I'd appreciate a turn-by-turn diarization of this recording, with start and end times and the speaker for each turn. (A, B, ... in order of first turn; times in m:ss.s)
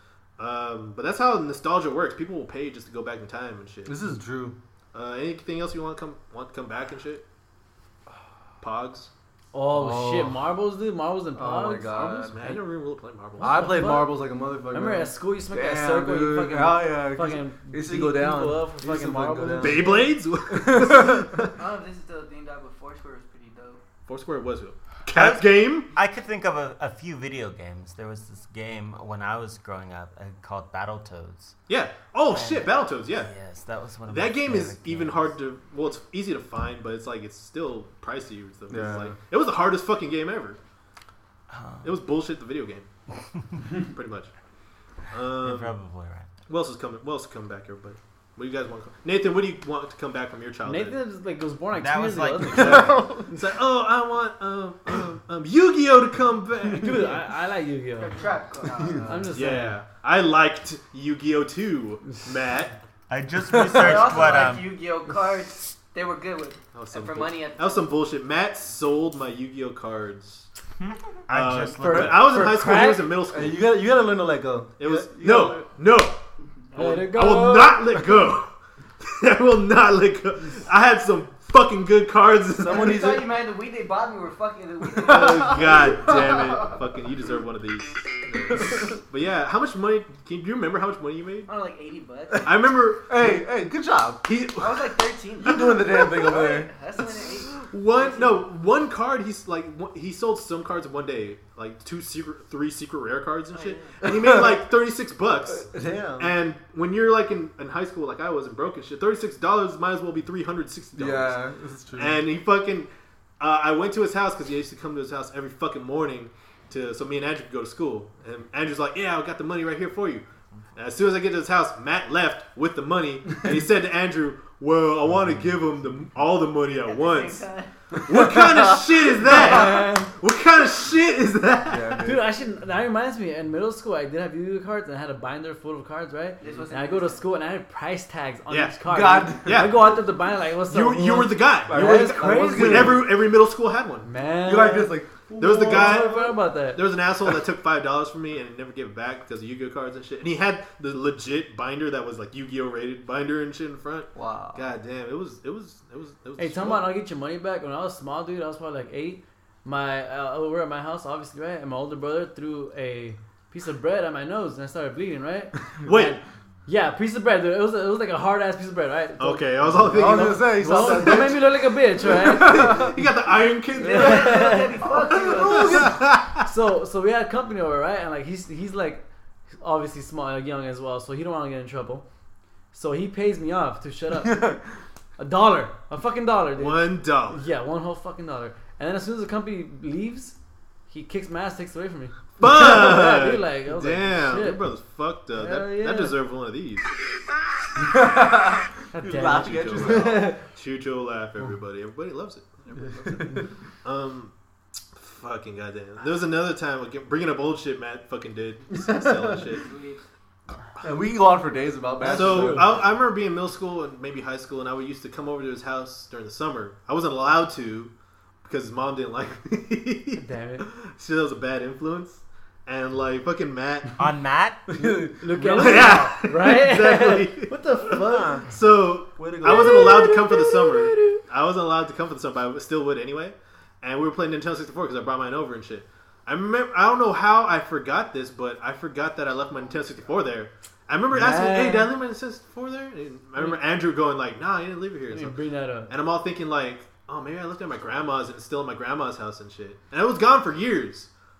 0:00.4-0:04.0 A
0:03.9-0:04.6 B
0:04.9-0:07.2 A
0:08.6-0:09.1 A
0:09.5-0:12.6 C
0:09.7-0:10.4 B
0:11.3-0:12.4 B
0:12.3-0:13.7 A
0:13.4-0:19.9 B
0:13.4-0:20.1 C
0:19.6-0:21.6 A
0:20.5-0:21.4 B
0:21.5-0:23.8 D
0:24.1-0:25.9 A
0:25.1-0:31.6 E
0:31.7-0:33.3 A
0:32.3-0:35.3 E
0:34.0-0:40.6 A
0:38.7-0:39.2 B
0:41.5-0:42.0 E
0:41.8-0:42.9 A
0:43.8-0:44.3 A
0:45.1-0:45.8 A
0:45.4-0:46.3 E
0:46.5-0:51.0 A
0:50.6-0:52.9 C
0:51.7-0:53.0 E
0:52.6-0:57.2 A
0:52.7-0:53.2 B
0:56.7-0:58.2 C
0:58.0-0:59.1 D
0:58.8-0:59.3 B
0:59.1-0:59.8 C
0:59.3-1:02.8 A
1:03.1-1:04.8 E
1:03.5-1:04.2 B
1:03.6-1:07.9 D
1:06.7-1:10.5 A
1:11.3-1:12.5 E
1:11.3-1:13.6 A
1:11.8-1:13.1 C
1:13.3-1:15.7 B
1:14.8-1:16.2 A
1:16.7-1:23.0 A
1:16.8-1:18.0 C
1:22.6-1:23.3 B
1:22.7-1:26.5 D
1:24.8-1:25.9 B
1:25.0-1:31.5 A
1:31.5-1:32.5 D
1:32.4-1:33.5 A
1:33.1-1:34.2 B
1:34.2-1:35.0 A
1:34.6-1:38.4 D
1:35.4-1:36.7 B
1:37.5-1:52.9 A
1:43.5-1:44.0 D
1:45.6-1:46.3 B
1:51.0-1:52.2 B
1:53.4-2:00.2 A
2:00.8-2:07.4 A
2:06.7-2:07.7 D
2:08.0-2:12.1 A
2:08.1-2:09.9 B
2:09.3-2:10.1 C
2:11.7-2:12.3 B
2:12.0-2:23.1 C
2:16.4-2:17.2 D
2:18.5-2:18.8 A
2:18.9-2:20.0 B
2:19.4-2:20.0 A
2:20.7-2:24.1 A
2:21.7-2:23.1 B
2:24.0-2:26.8 C
2:24.4-2:26.3 B
2:25.4-2:36.9 A
2:34.1-2:34.6 B
2:36.4-2:52.9 C
2:45.8-2:46.2 A
2:49.2-2:51.3 A
2:49.9-2:53.0 B
2:52.4-2:54.4 A
2:53.8-2:54.9 C
2:53.8-2:55.9 D
2:54.8-2:56.0 B
2:55.4-2:56.5 A
2:56.4-2:59.0 C
2:59.6-3:02.0 C
3:02.7-3:04.5 C
3:04.2-3:04.6 B
3:05.2-3:10.4 C
3:06.6-3:07.4 A
3:10.9-3:14.6 C
3:12.4-3:16.9 A
3:15.4-3:16.2 C
3:17.8-3:20.3 B
3:18.9-3:20.4 C
3:19.4-3:24.3 A
3:23.0-3:23.4 B
3:24.9-3:29.7 A
3:28.8-3:29.4 B
3:29.6-3:30.0 D
3:30.8-3:32.7 B
3:32.0-3:32.7 C
3:32.0-3:37.9 A
3:38.4-3:44.0 A
3:40.2-3:40.7 C
3:44.0-3:44.7 E
3:44.7-3:46.0 B
3:45.1-3:48.5 C
3:45.4-3:47.5 A
3:48.0-3:48.5 B
3:48.5-4:05.4 A
3:49.2-3:50.0 B
3:49.4-3:51.2 C
4:01.1-4:01.9 C
4:05.1-4:05.9 C
4:05.9-4:11.1 A